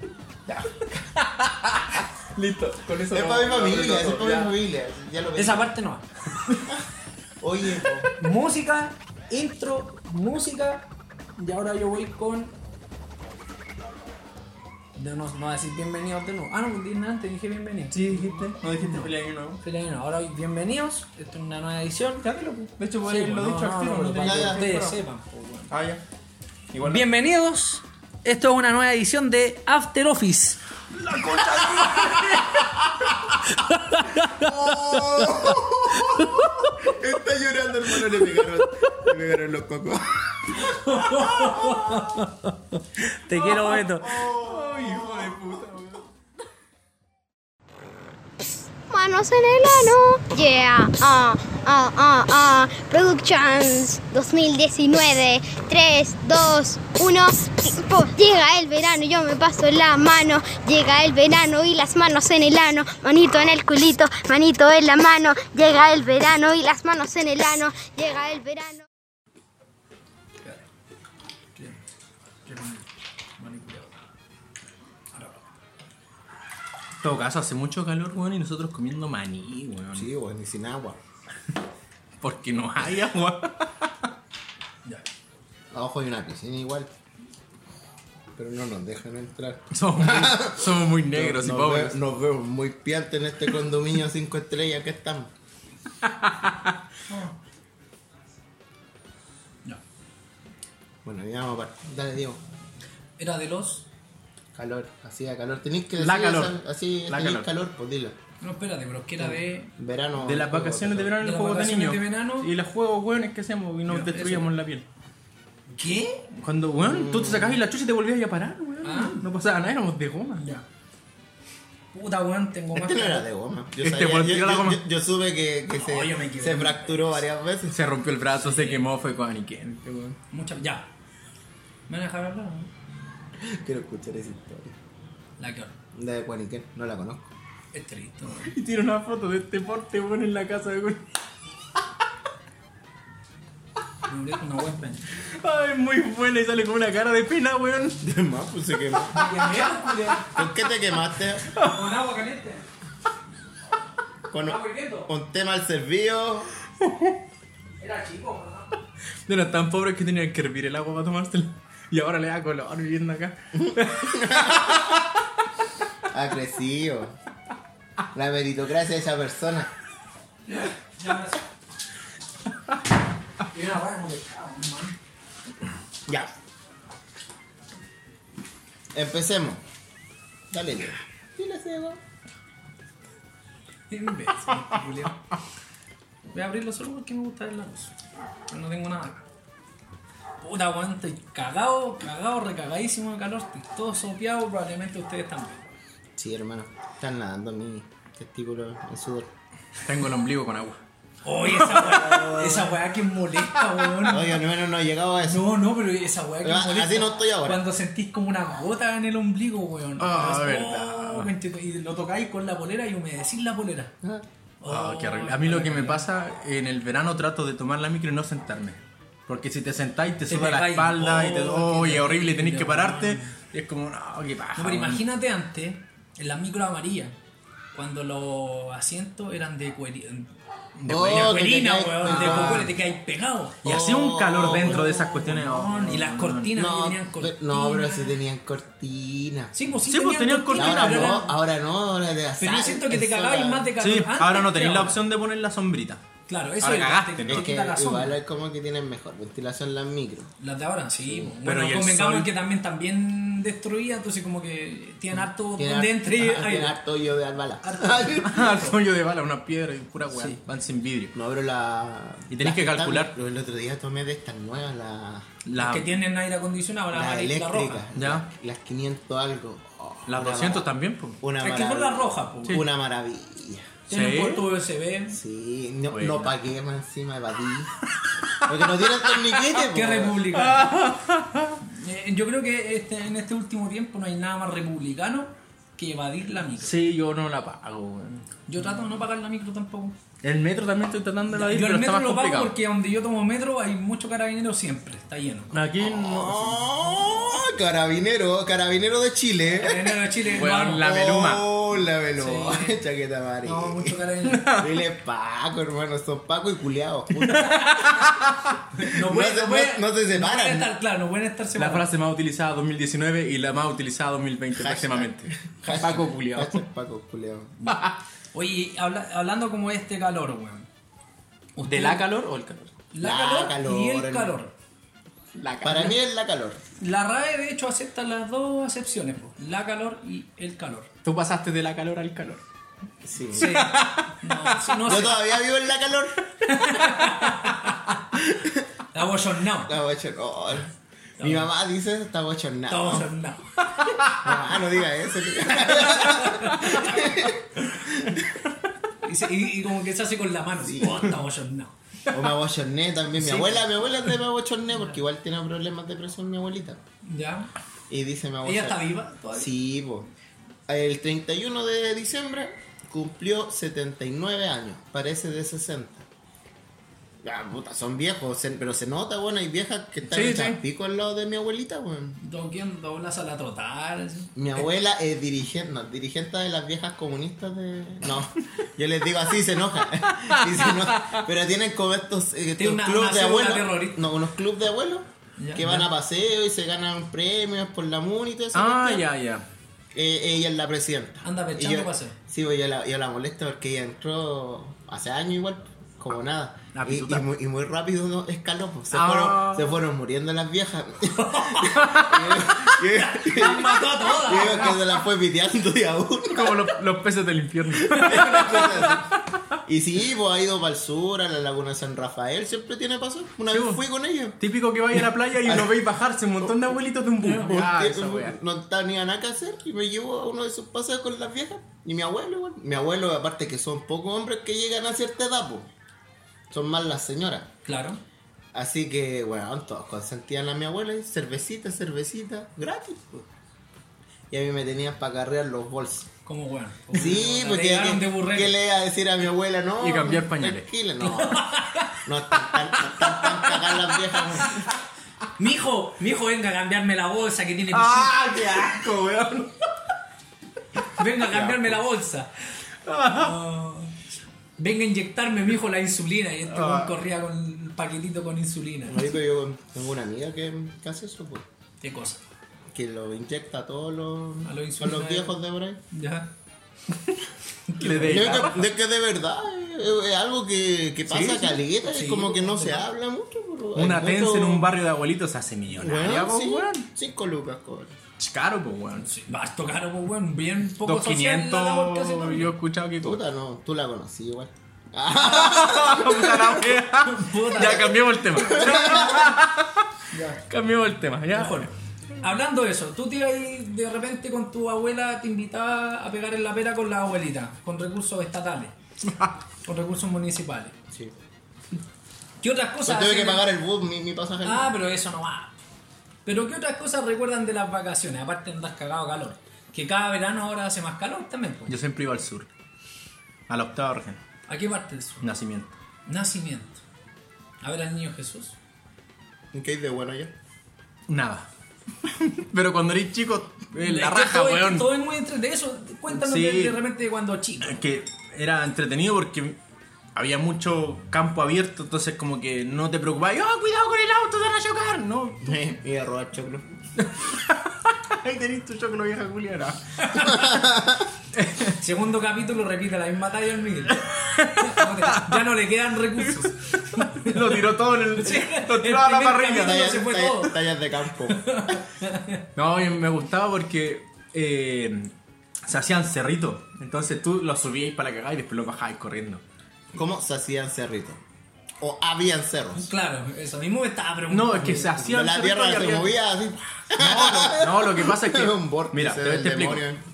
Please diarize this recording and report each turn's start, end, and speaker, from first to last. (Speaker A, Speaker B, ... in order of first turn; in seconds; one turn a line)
Speaker A: 0.8-4.5
Speaker B: 3.1-5.7
Speaker C: 5.4-6.1
Speaker B: 7.4-8.1
Speaker C: 8.2-10.9
Speaker C: 11.4-12.5
Speaker C: 15.0-19.1
Speaker A: 17.9-19.6
Speaker C: 19.6-22.3
Speaker A: 22.2-25.0
Speaker C: 23.1-25.7
Speaker B: 24.2-24.6
Speaker A: 25.7-26.0
Speaker A: 26.7-27.1
Speaker C: 26.9-30.6
Speaker A: 31.0-32.5
Speaker B: 31.6-32.0
Speaker C: 33.5-35.6
Speaker B: 34.4-41.8
Speaker C: 36.1-36.4
Speaker C: 40.6-44.1
Speaker A: 43.5-46.1
Speaker B: 44.1-45.3
Speaker D: 48.9-68.8
Speaker C: 72.5-72.8
Speaker C: 73.4-73.9
Speaker C: 75.1-75.4
Speaker A: 77.0-80.1
Speaker B: 79.9-81.0
Speaker A: 82.2-83.9
Speaker B: 85.7-87.0
Speaker B: 88.4-95.3
Speaker A: 89.7-92.0
Speaker A: 96.0-96.7
Speaker C: 97.1-97.4
Speaker B: 101.0-102.4
Speaker C: 103.2-103.9
Speaker B: 104.5-108.2
Speaker A: 106.0-107.5
Speaker C: 108.4-109.7
Speaker B: 109.2-111.2
Speaker A: 110.2-114.8
Speaker C: 111.2-112.5
Speaker C: 113.9-114.5
Speaker C: 115.7-116.2
Speaker A: 116.4-120.4
Speaker B: 116.8-117.6
Speaker C: 118.8-119.2
Speaker C: 120.4-120.7
Speaker C: 121.9-123.2
Speaker B: 122.7-127.8
Speaker A: 123.8-124.8
Speaker C: 125.8-127.1
Speaker A: 127.7-130.2
Speaker C: 128.4-128.8
Speaker C: 130.3-130.9
Speaker C: 131.9-132.7
Speaker B: 133.4-134.8
Speaker C: 135.4-135.8
Speaker B: 135.9-137.3
Speaker C: 137.7-138.5
Speaker A: 138.4-141.0
Speaker C: 144.1-145.1
Speaker A: 145.4-148.0
Speaker B: 148.0-149.2
Speaker C: 149.2-150.3
Speaker A: 149.2-149.7
Speaker B: 150.3-151.5
Speaker A: 151.6-151.9
Speaker C: 151.6-152.7
Speaker B: 154.3-156.5
Speaker C: 154.4-155.1
Speaker A: 156.8-157.2
Speaker C: 157.8-158.8
Speaker A: 159.3-165.1
Speaker B: 163.6-164.9
Speaker B: 166.1-167.1
Speaker B: 168.1-169.7
Speaker C: 170.5-171.4
Speaker C: 173.5-175.0
Speaker B: 176.1-176.3
Speaker B: 178.9-179.6
Speaker B: 180.5-182.0
Speaker C: 183.9-185.2
Speaker C: 186.3-187.9
Speaker C: 188.5-189.2
Speaker C: 190.4-195.6
Speaker B: 196.2-199.3
Speaker A: 199.8-200.8
Speaker C: 201.2-204.3
Speaker A: 201.4-202.7
Speaker B: 204.1-205.6
Speaker C: 205.2-213.9
Speaker B: 206.4-207.7
Speaker A: 210.0-211.3
Speaker C: 214.6-216.1
Speaker A: 214.7-225.1
Speaker C: 220.3-223.3
Speaker C: 224.6-227.2
Speaker C: 227.8-230.3
Speaker A: 230.8-231.5
Speaker B: 230.9-232.7
Speaker C: 231.1-233.6
Speaker A: 232.0-232.7
Speaker B: 233.6-234.9
Speaker A: 233.6-236.5
Speaker C: 234.5-238.1
Speaker B: 236.6-239.5
Speaker C: 239.5-241.3
Speaker A: 239.9-241.2
Speaker B: 240.5-243.7
Speaker C: 242.4-245.0
Speaker A: 243.8-246.0
Speaker C: 246.3-248.2
Speaker A: 246.6-247.5
Speaker B: 247.3-250.3
Speaker C: 250.4-256.8
Speaker B: 251.0-251.3
Speaker A: 251.4-252.3
Speaker B: 255.5-258.6
Speaker C: 257.6-258.7
Speaker A: 258.3-261.1
Speaker C: 260.1-260.4
Speaker B: 261.1-265.3
Speaker A: 262.3-263.1
Speaker A: 265.5-265.9
Speaker C: 265.6-267.8
Speaker B: 266.9-270.7
Speaker A: 268.0-268.3
Speaker A: 270.1-271.2
Speaker B: 271.2-273.7
Speaker C: 271.4-272.6
Speaker C: 273.9-275.2
Speaker A: 273.9-274.5
Speaker B: 275.1-277.7
Speaker A: 275.9-276.3
Speaker B: 278.4-280.2
Speaker A: 278.8-279.4
Speaker C: 279.6-280.7
Speaker A: 280.3-281.6
Speaker C: 281.6-286.7
Speaker A: 286.6-288.2
Speaker C: 288.5-290.0
Speaker A: 290.2-292.5
Speaker C: 291.3-295.5
Speaker A: 295.5-296.6
Speaker B: 295.8-304.0
Speaker C: 299.5-300.8
Speaker A: 300.3-301.5
Speaker C: 302.2-302.8
Speaker C: 303.4-304.5
Speaker A: 304.3-304.7
Speaker B: 304.6-307.6
Speaker A: 307.2-308.5
Speaker C: 307.4-307.9
Speaker C: 308.7-311.9
Speaker B: 309.0-310.7
Speaker A: 311.6-316.6
Speaker B: 314.6-317.7
Speaker A: 317.7-318.0
Speaker C: 318.3-320.7
Speaker C: 321.6-322.0
Speaker A: 321.6-322.7
Speaker C: 322.9-324.5
Speaker B: 323.0-324.4
Speaker A: 325.4-326.0
Speaker B: 325.6-326.6
Speaker C: 326.8-330.9
Speaker A: 331.1-332.4
Speaker B: 333.0-333.7
Speaker C: 333.4-335.2
Speaker A: 333.4-335.0
Speaker B: 334.8-336.2
Speaker A: 336.5-337.7
Speaker C: 336.6-337.8
Speaker B: 338.3-338.7
Speaker C: 338.9-339.8
Speaker B: 339.6-343.1
Speaker C: 341.2-341.5
Speaker C: 342.7-343.4
Speaker A: 343.9-344.2
Speaker B: 344.2-348.1
Speaker C: 345.8-346.9
Speaker A: 346.6-347.1
Speaker C: 349.0-351.7
Speaker B: 350.6-351.1
Speaker B: 352.1-356.8
Speaker C: 353.3-353.6
Speaker C: 357.1-357.5
Speaker B: 357.9-360.1
Speaker C: 358.4-359.5
Speaker B: 360.7-366.1
Speaker B: 367.2-372.2
Speaker A: 370.1-370.6
Speaker C: 372.2-374.3
Speaker B: 374.4-389.1
Speaker A: 380.2-381.2
Speaker C: 382.6-384.1
Speaker C: 385.4-385.8
Speaker A: 388.5-389.4
Speaker B: 389.9-406.8
Speaker C: 391.2-392.2
Speaker A: 396.8-397.2
Speaker A: 398.9-399.7
Speaker C: 401.1-402.0
Speaker A: 401.8-402.2
Speaker C: 402.9-404.8
Speaker A: 406.3-409.6
Speaker B: 407.8-409.1
Speaker B: 409.7-414.4
Speaker A: 413.5-413.8
Speaker A: 414.4-418.4
Speaker B: 415.0-415.8
Speaker C: 417.2-417.5
Speaker B: 417.3-425.7
Speaker B: 426.5-427.5
Speaker C: 427.6-428.0
Speaker B: 428.5-433.3
Speaker B: 434.3-436.1
Speaker C: 436.3-438.6
Speaker B: 436.9-444.6
Speaker A: 439.8-440.7
Speaker C: 441.0-442.0
Speaker C: 445.4-448.1
Speaker A: 447.7-449.6
Speaker C: 450.9-452.3
Speaker B: 451.3-451.7
Speaker A: 452.9-453.4
Speaker C: 453.1-454.0
Speaker C: 454.6-459.1
Speaker A: 456.5-457.0
Speaker B: 458.9-461.4
Speaker C: 461.8-462.2
Speaker B: 462.7-465.8
Speaker C: 464.4-465.4
Speaker C: 465.9-466.3
Speaker C: 467.7-468.5
Speaker A: 467.8-468.7
Speaker B: 468.0-474.7
Speaker A: 471.1-471.6
Speaker C: 471.9-472.9
Speaker A: 473.8-476.9
Speaker B: 475.7-477.9
Speaker A: 478.2-479.1
Speaker C: 479.0-482.5
Speaker A: 480.8-483.2
Speaker B: 483.0-486.8
Speaker A: 485.2-489.9
Speaker C: 487.0-489.1
Speaker B: 488.4-489.3
Speaker C: 490.1-490.4
Speaker A: 490.5-491.7
Speaker C: 491.3-498.7
Speaker C: 499.7-500.7
Speaker C: 502.4-503.4
Speaker B: 502.9-504.8
Speaker C: 504.4-505.6
Speaker C: 506.3-511.8
Speaker A: 511.7-512.5
Speaker A: 513.5-514.2
Speaker C: 514.5-515.3
Speaker A: 515.2-515.7
Speaker C: 516.1-516.8
Speaker C: 517.6-518.6
Speaker B: 519.5-520.3
Speaker A: 521.1-521.5
Speaker A: 522.1-524.9
Speaker C: 523.8-527.8
Speaker A: 526.1-526.8
Speaker A: 527.6-529.6
Speaker A: 530.2-535.5
Speaker B: 535.4-536.7
Speaker A: 537.0-540.5
Speaker C: 540.0-540.3
Speaker B: 540.2-541.1
Speaker A: 541.3-541.8
Speaker C: 541.8-544.0
Speaker A: 544.0-545.5
Speaker C: 544.5-547.6
Speaker A: 546.3-549.9
Speaker C: 548.2-550.5
Speaker B: 549.5-551.8
Speaker C: 551.3-552.4
Speaker A: 552.6-555.1
Speaker A: 555.7-559.4
Speaker B: 559.9-561.2
Speaker B: 561.8-562.9
Speaker C: 562.8-564.9
Speaker A: 564.3-566.2
Speaker B: 564.8-570.0
Speaker A: 567.0-569.9